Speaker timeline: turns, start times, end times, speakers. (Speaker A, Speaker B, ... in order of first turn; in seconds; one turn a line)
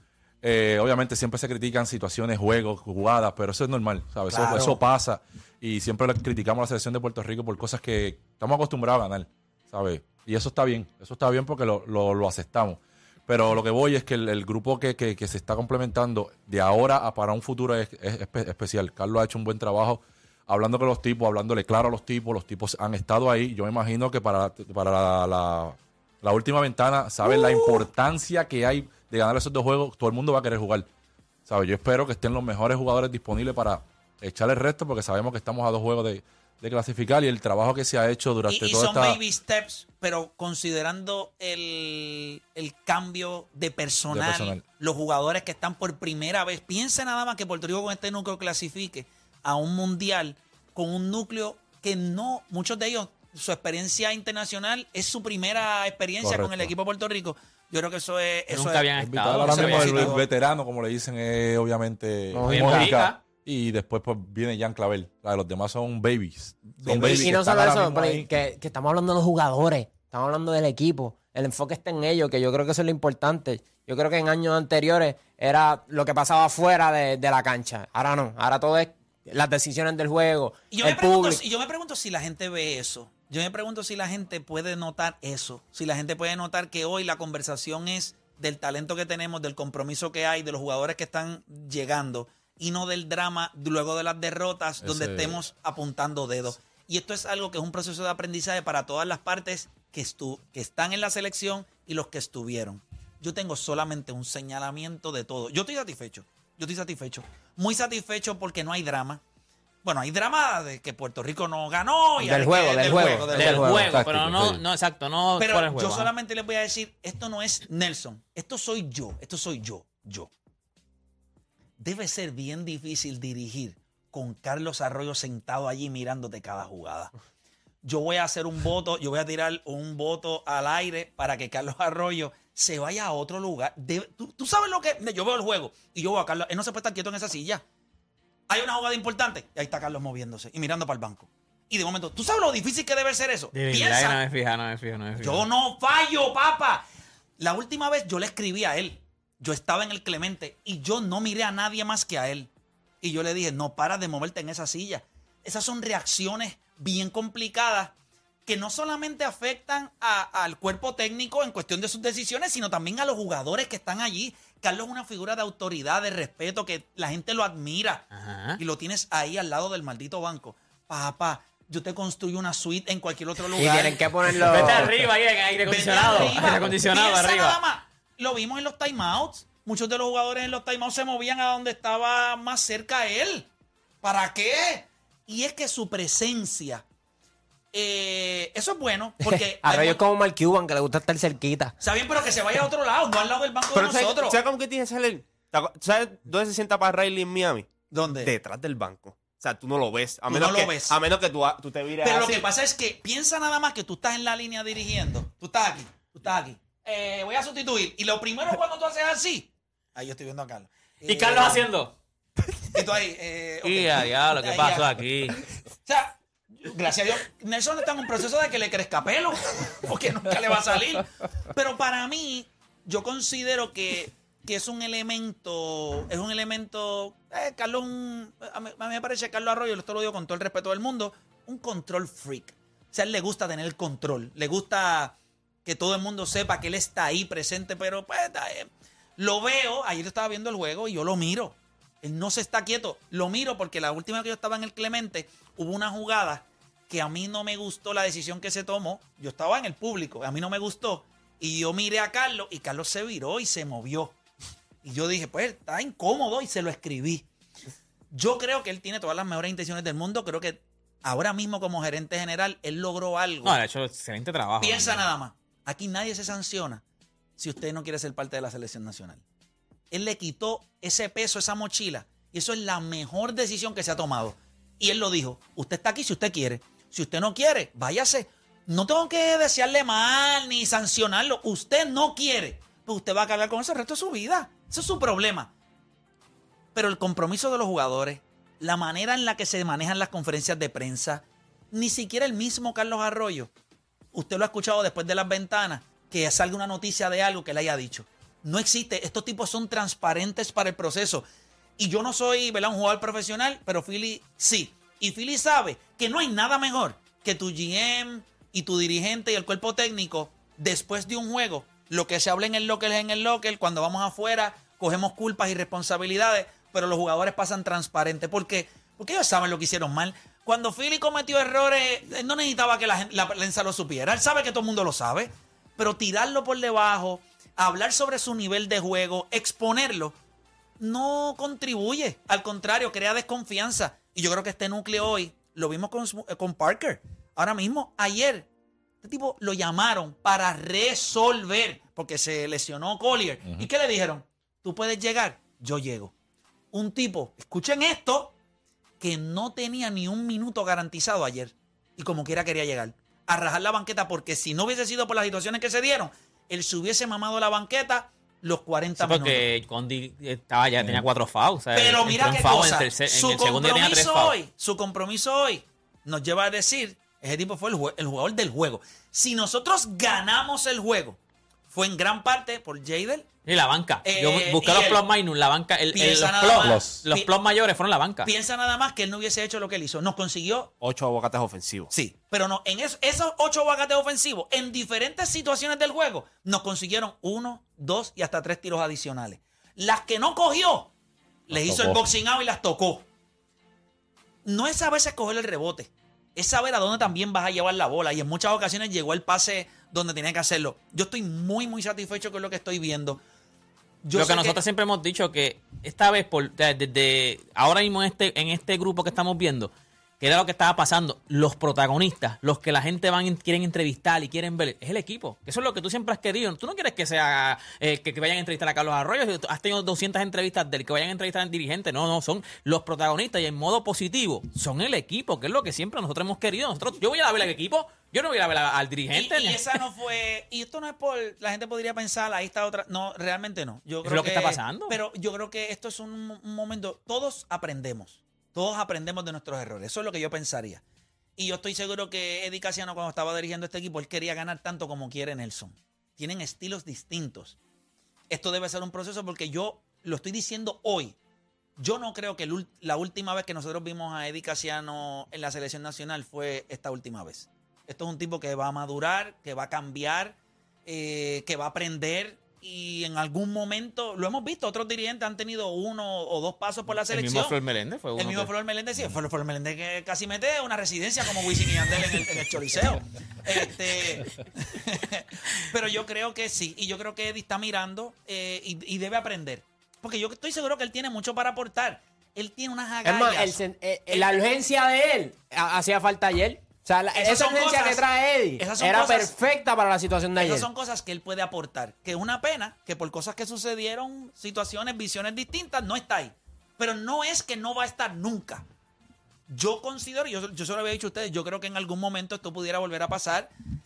Speaker A: 0.4-30.9
Speaker B: 4.3-4.8
Speaker A: 31.5-39.2
Speaker C: 38.5-60.3
Speaker A: 44.1-44.6
Speaker A: 56.2-56.7
Speaker D: 58.5-60.2
Speaker A: 59.0-68.3
Speaker B: 62.3-62.9
Speaker D: 62.5-63.2
Speaker C: 66.8-67.3
Speaker B: 66.9-81.4
Speaker C: 80.7-109.2
Speaker A: 94.8-95.4
Speaker C: 109.8-113.8
Speaker B: 112.2-113.9
Speaker D: 113.3-116.1
Speaker A: 113.9-114.6
Speaker C: 115.4-120.3
Speaker C: 121.8-127.1
Speaker C: 127.8-137.6
Speaker C: 138.5-144.2
Speaker D: 143.5-145.4
Speaker C: 145.2-146.8
Speaker C: 147.4-152.5
Speaker C: 153.0-157.9
Speaker C: 158.5-168.1
Speaker D: 168.1-168.6
Speaker C: 168.6-174.8
Speaker B: 173.5-174.9
Speaker D: 174.3-177.6
Speaker C: 175.7-183.5
Speaker C: 184.0-186.8
Speaker C: 187.7-190.0
Speaker B: 189.2-191.8
Speaker C: 191.8-194.4
Speaker E: 193.7-197.7
Speaker C: 197.9-198.3
Speaker E: 198.2-202.5
Speaker C: 200.3-201.0
Speaker C: 202.0-211.7
Speaker D: 211.1-211.9
Speaker C: 212.7-215.0
Speaker D: 213.6-215.5
Speaker C: 215.8-254.2
Speaker C: 254.8-257.3
Speaker C: 258.1-263.6
Speaker D: 263.4-265.1
Speaker C: 264.6-266.8
Speaker C: 267.4-269.2
Speaker C: 269.9-285.5
Speaker C: 286.7-293.5
Speaker C: 294.1-301.2
Speaker C: 301.8-330.1
Speaker C: 330.8-338.5
Speaker C: 339.0-346.1
Speaker C: 346.7-348.4
Speaker C: 349.0-359.5
Speaker D: 359.0-364.4
Speaker C: 361.7-371.2
Speaker C: 371.7-373.3
Speaker D: 373.4-378.3
Speaker C: 374.0-375.0
Speaker C: 375.9-377.3
Speaker A: 376.6-377.0
Speaker C: 378.2-380.7
Speaker E: 380.8-381.9
Speaker C: 381.9-390.9
Speaker C: 391.5-393.1
Speaker A: 391.5-392.1
Speaker C: 394.4-403.2
Speaker C: 404.0-404.6
Speaker D: 404.1-429.8
Speaker C: 429.1-440.8
Speaker D: 434.0-435.0
Speaker C: 441.4-447.6
Speaker C: 448.3-451.2
Speaker C: 451.8-467.6
Speaker D: 467.1-468.5
Speaker C: 468.1-484.4
Speaker B: 483.0-490.7
Speaker C: 487.1-488.0
Speaker C: 488.6-489.4
Speaker C: 490.4-498.6
Speaker C: 499.5-503.5